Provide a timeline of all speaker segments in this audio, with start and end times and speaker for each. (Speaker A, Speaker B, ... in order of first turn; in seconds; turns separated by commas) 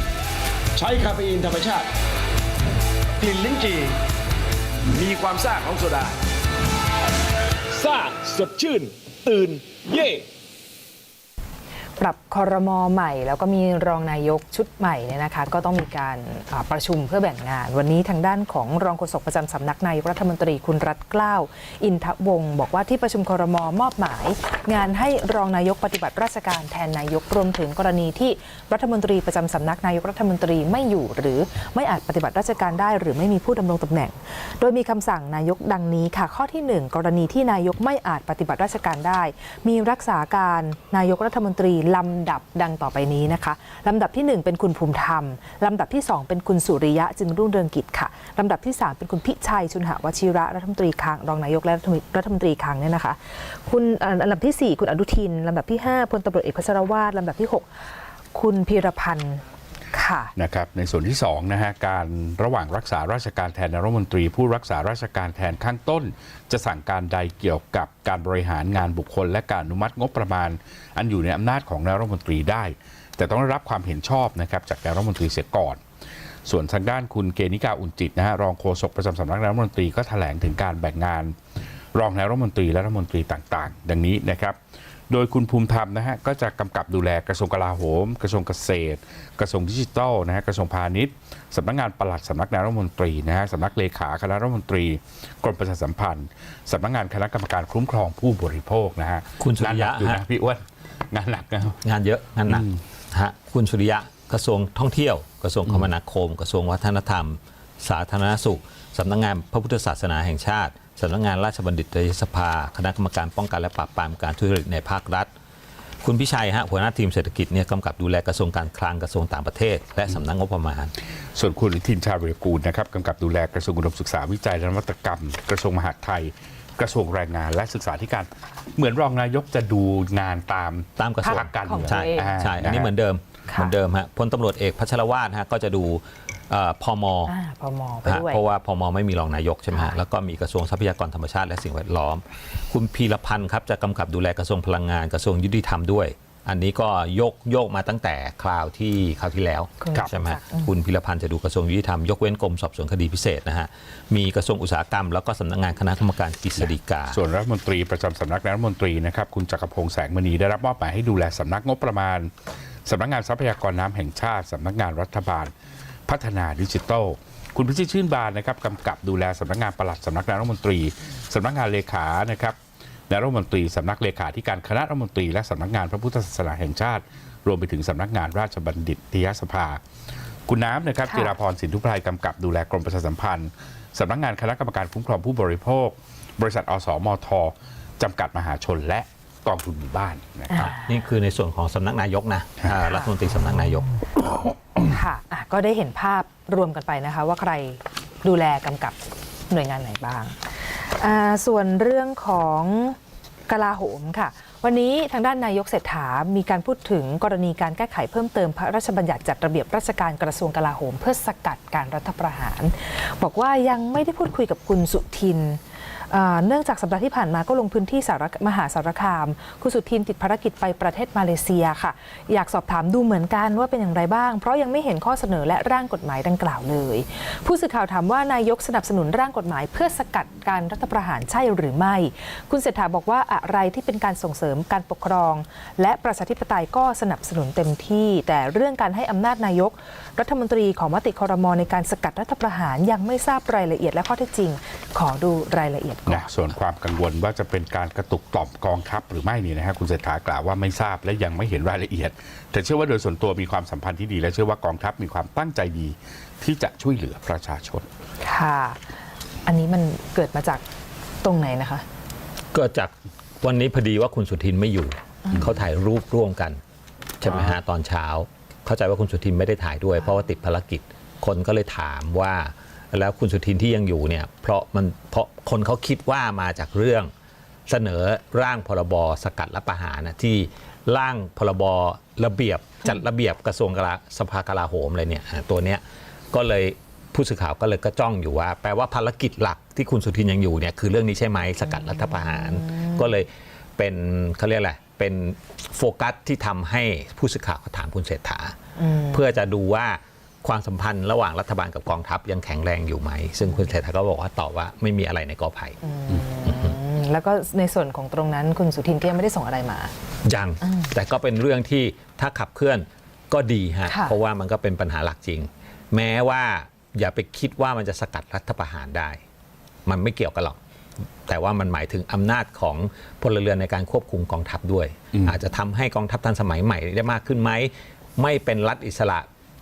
Speaker A: 0.8-1.9, Speaker A: 3.2-4.0, Speaker A: 4.9-6.2, Speaker A: 7.7-10.3, Speaker B: 12.0-57.7, Speaker B: 58.3-59.4, Speaker B: 59.9-60.3, Speaker C: 60.4-75.8, Speaker C: 76.5-81.4, Speaker C: 81.9-84.6, Speaker C: 85.1-101.8, Speaker D: 99.4-100.2, Speaker D: 101.8-115.3, Speaker C: 102.5-102.8, Speaker D: 116.0-120.9, Speaker C: 121.4-132.9, Speaker D: 131.0-137.3, Speaker B: 131.2-132.4, Speaker B: 133.5-133.7, Speaker B: 137.3-138.4, Speaker D: 138.1-157.2, Speaker B: 149.8-150.7, Speaker C: 156.6-162.3, Speaker C: 162.9-165.5, Speaker C: 166.1-172.6, Speaker C: 173.1-179.8, Speaker C: 180.5-190.8, Speaker B: 181.1-181.3, Speaker B: 190.5-190.9, Speaker D: 190.6-193.9, Speaker B: 192.8-193.1, Speaker B: 194.8-199.0, Speaker B: 199.5-203.0, Speaker B: 203.5-246.3, Speaker C: 246.1-257.9, Speaker B: 258.2-258.9, Speaker B: 259.5-260.6, Speaker B: 261.2-261.8, Speaker D: 262.5-266.6, Speaker C: 265.3-265.6, Speaker D: 267.2-277.1, Speaker C: 267.3-267.6, Speaker D: 277.7-285.8, Speaker D: 286.3-298.6, Speaker B: 292.1-293.0, Speaker B: 298.8-299.2, Speaker D: 299.1-305.8, Speaker B: 305.8-309.9, Speaker D: 310.2-319.2, Speaker B: 310.6-310.9, Speaker D: 319.9-320.6, Speaker D: 321.3-329.3